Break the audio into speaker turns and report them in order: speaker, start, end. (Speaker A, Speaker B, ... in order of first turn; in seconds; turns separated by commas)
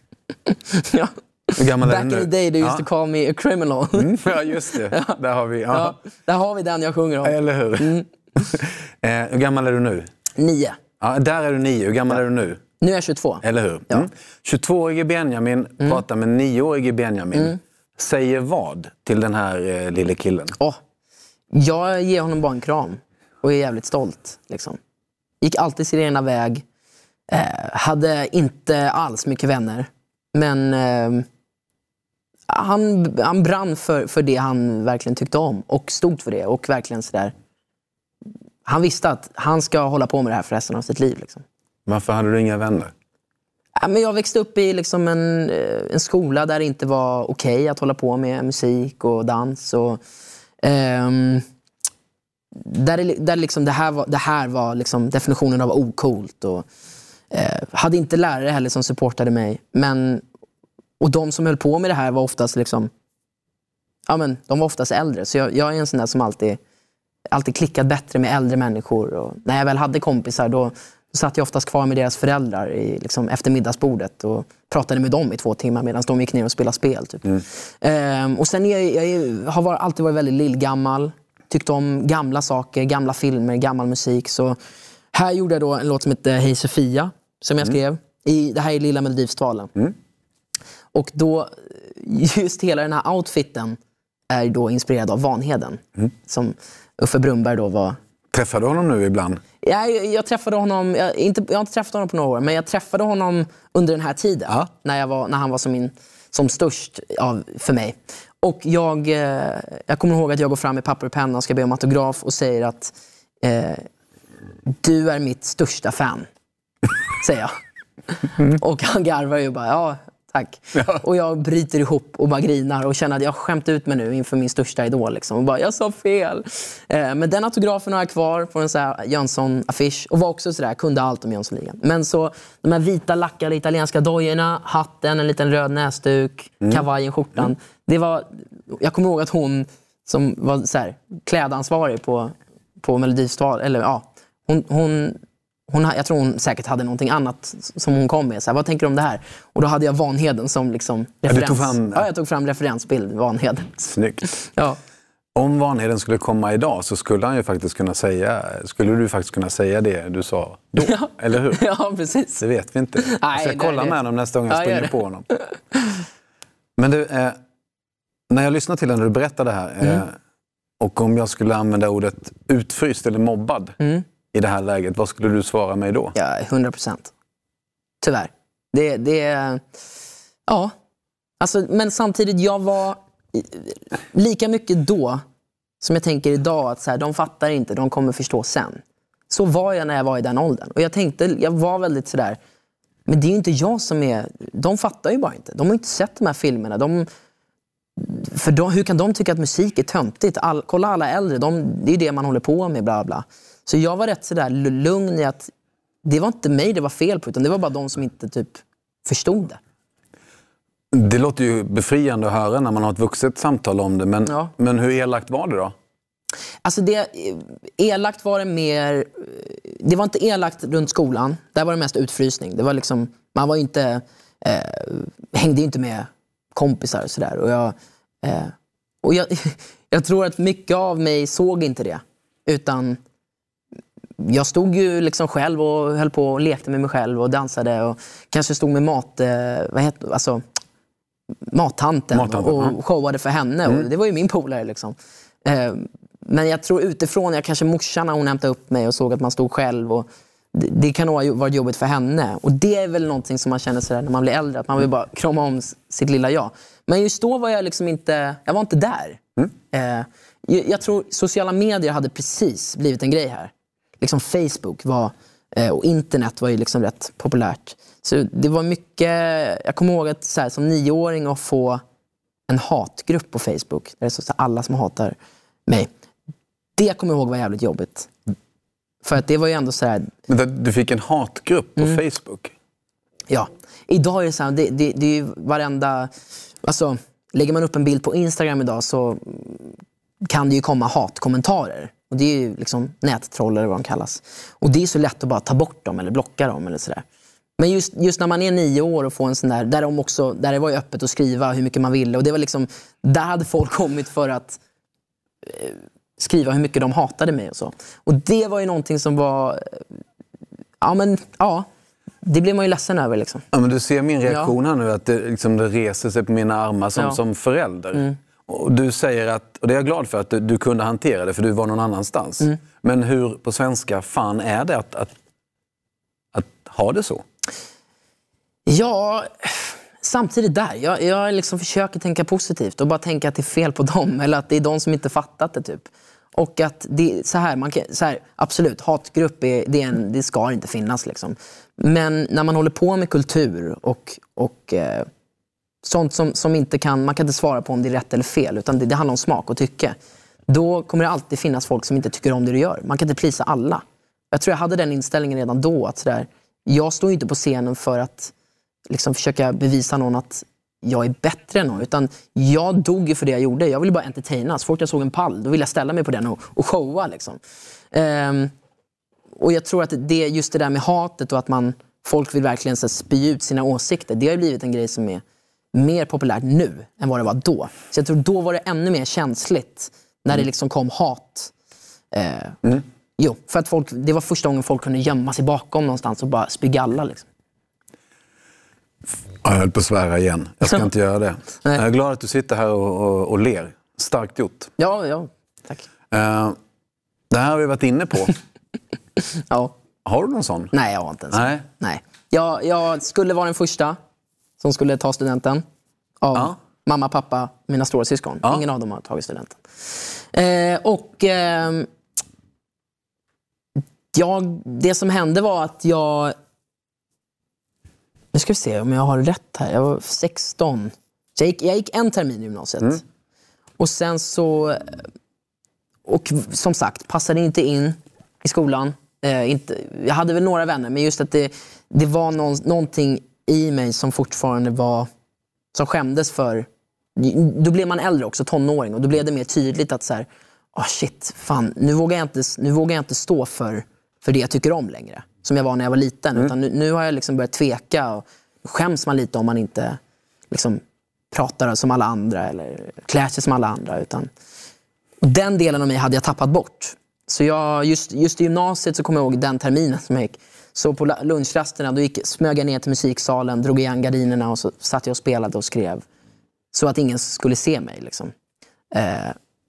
Speaker A: 0.5-5.2, Speaker B: 1.6-2.8, Speaker B: 4.0-6.0, Speaker A: 5.7-8.1, Speaker B: 7.2-10.1, Speaker A: 10.4-10.8, Speaker B: 11.0-12.6, Speaker A: 12.8-14.1, Speaker B: 13.4-20.6, Speaker A: 21.5-24.8, Speaker A: 25.4-26.6, Speaker A: 27.3-31.2, Speaker A: 32.5-37.3, Speaker A: 38.6-41.4, Speaker B: 41.9-42.9, Speaker A: 43.8-50.0, Speaker A: 50.6-51.4, Speaker A: 52.5-56.6, Speaker A: 57.3-60.2, Speaker A: 61.0-62.9, Speaker A: 64.1-66.6, Speaker A: 67.3-84.6, Speaker A: 85.1-89.7, Speaker A: 90.9-93.8, Speaker A: 94.3-98.0, Speaker B: 98.3-99.4, Speaker A: 99.6-113.9, Speaker A: 114.8-116.3, Speaker A: 117.2-117.6, Speaker A: 118.2-154.8, Speaker B: 151.3-152.0, Speaker B: 153.8-154.2, Speaker B: 155.3-161.6, Speaker A: 160.8-162.4, Speaker B: 162.4-165.3, Speaker A: 163.0-163.9, Speaker A: 164.5-166.0, Speaker B: 166.8-167.4, Speaker B: 168.3-170.2, Speaker B: 170.8-173.8, Speaker B: 174.3-176.1, Speaker A: 176.1-177.1, Speaker A: 178.0-179.6, Speaker A: 180.5-180.7, Speaker A: 181.4-185.2, Speaker A: 185.8-192.4, Speaker A: 193.1-197.1, Speaker A: 198.0-205.5, Speaker A: 206.0-209.6, Speaker B: 210.9-215.7, Speaker A: 214.2-214.5, Speaker A: 216.6-233.0, Speaker A: 234.2-240.4, Speaker A: 241.5-271.8, Speaker B: 242.1-242.7, Speaker A: 272.5-275.1, Speaker A: 276.8-278.1, Speaker A: 279.0-280.1, Speaker B: 280.3-282.5, Speaker A: 283.3-286.1, Speaker A: 286.6-297.0, Speaker A: 297.6-304.6, Speaker A: 305.4-309.8, Speaker A: 310.8-311.7, Speaker A: 312.2-313.4, Speaker B: 313.5-325.1, Speaker B: 326.3-327.2, Speaker A: 328.7-345.1, Speaker A: 345.8-350.0, Speaker A: 350.5-358.3, Speaker A: 358.9-367.4, Speaker A: 367.9-368.5, Speaker A: 369.4-375.2, Speaker A: 375.7-381.5, Speaker A: 382.1-382.6, Speaker A: 383.2-387.2, Speaker B: 389.4-394.7, Speaker A: 394.8-395.9, Speaker B: 396.1-396.6, Speaker B: 397.3-398.4, Speaker A: 399.4-399.7, Speaker B: 400.0-400.7, Speaker A: 400.7-404.0, Speaker B: 401.3-401.6, Speaker A: 404.6-405.6, Speaker A: 406.2-411.9, Speaker A: 414.1-416.3, Speaker A: 418.3-423.0, Speaker A: 423.8-425.0, Speaker A: 426.1-435.1, Speaker A: 435.7-450.0, Speaker A: 450.5-454.3, Speaker A: 455.2-466.0, Speaker A: 466.7-468.3, Speaker A: 468.9-469.4